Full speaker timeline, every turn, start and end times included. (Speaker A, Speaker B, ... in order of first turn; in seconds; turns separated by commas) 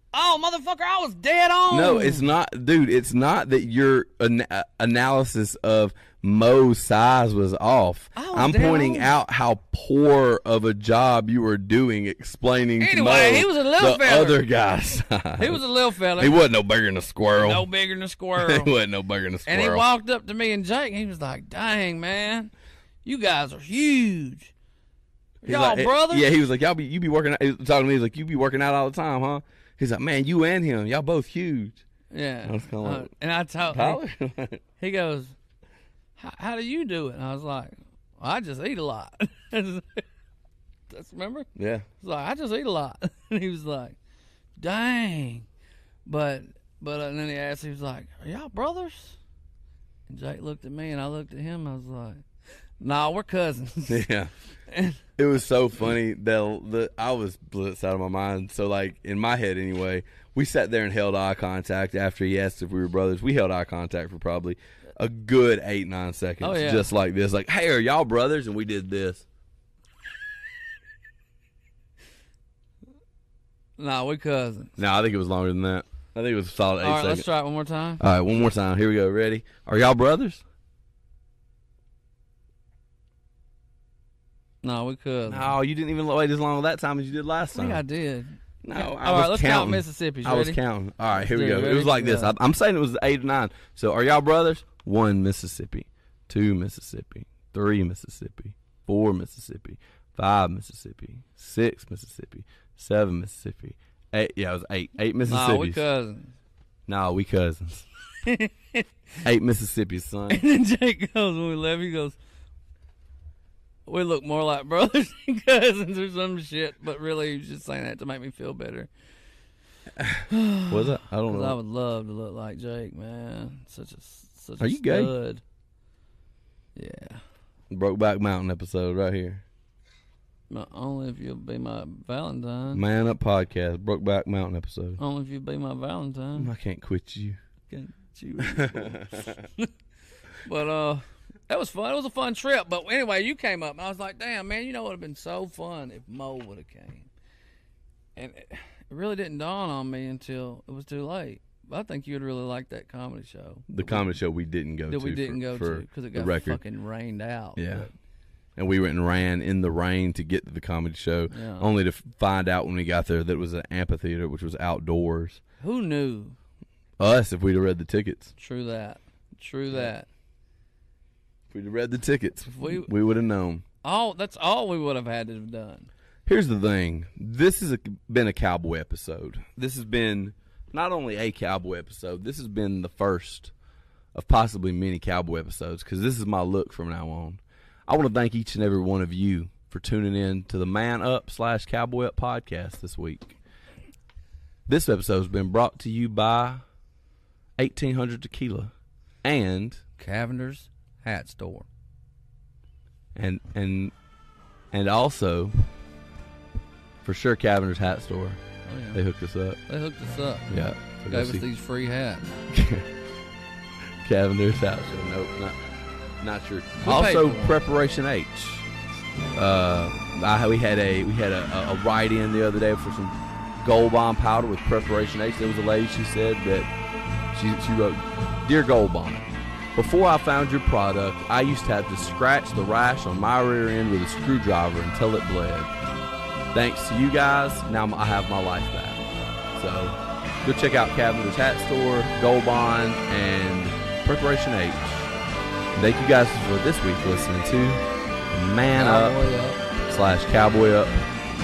Speaker A: 0.1-2.3, Speaker B: 1.7-15.6, Speaker A: 8.2-9.1, Speaker A: 12.8-14.4, Speaker A: 15.4-16.5, Speaker B: 16.2-17.7, Speaker A: 17.4-18.7, Speaker B: 18.4-19.9, Speaker A: 19.5-22.5, Speaker A: 23.0-24.5, Speaker B: 25.4-31.8, Speaker A: 25.4-26.3, Speaker A: 32.1-34.0, Speaker B: 32.5-33.1, Speaker B: 33.7-34.6, Speaker A: 34.8-35.4, Speaker A: 36.2-40.0, Speaker A: 40.9-41.5, Speaker B: 41.6-41.9, Speaker A: 42.0-44.0, Speaker A: 44.6-45.5, Speaker A: 46.1-49.2, Speaker A: 50.1-52.2, Speaker A: 52.8-54.1, Speaker B: 53.9-54.3, Speaker A: 54.7-55.0, Speaker B: 55.2-69.2, Speaker A: 66.4-66.9, Speaker A: 73.8-74.8, Speaker B: 74.8-77.3, Speaker A: 76.8-78.0, Speaker B: 78.0-80.4, Speaker A: 84.6-85.5, Speaker B: 85.3-87.8, Speaker A: 87.5-90.6, Speaker B: 88.6-105.8, Speaker A: 91.1-92.3, Speaker A: 105.2-106.3, Speaker B: 106.9-107.9, Speaker A: 108.2-108.9, Speaker B: 109.2-110.4, Speaker A: 110.3-112.2, Speaker A: 113.9-118.9, Speaker B: 120.0-121.6, Speaker A: 120.3-125.4, Speaker B: 124.6-125.1, Speaker A: 126.8-127.2, Speaker B: 127.7-129.4, Speaker A: 130.5-132.8, Speaker B: 132.7-135.0, Speaker A: 135.0-136.5, Speaker B: 136.4-137.4, Speaker A: 137.7-139.7, Speaker B: 138.4-139.4, Speaker A: 140.4-147.1, Speaker A: 148.2-154.2, Speaker B: 153.7-156.6, Speaker A: 154.9-157.9, Speaker B: 157.6-157.9, Speaker B: 158.6-165.4, Speaker A: 161.3-161.7, Speaker A: 165.6-166.4, Speaker B: 167.0-168.3, Speaker A: 168.4-170.1, Speaker B: 171.5-173.6, Speaker A: 172.5-172.9, Speaker A: 173.8-175.9, Speaker B: 176.3-183.5, Speaker B: 184.1-193.4, Speaker B: 194.7-196.6, Speaker B: 197.6-198.7, Speaker B: 199.2-199.8, Speaker A: 200.0-201.7, Speaker B: 203.2-203.9, Speaker B: 204.7-205.6, Speaker B: 207.0-208.4, Speaker A: 208.6-209.0, Speaker B: 208.9-209.6, Speaker A: 209.7-210.5, Speaker B: 210.5-211.4, Speaker A: 211.1-212.4, Speaker B: 212.5-212.9, Speaker B: 214.0-215.6, Speaker B: 216.2-218.7, Speaker A: 216.8-217.6, Speaker B: 219.3-226.7, Speaker B: 227.3-235.7, Speaker B: 236.5-245.1, Speaker B: 245.7-249.2, Speaker A: 248.7-249.6, Speaker B: 249.8-251.1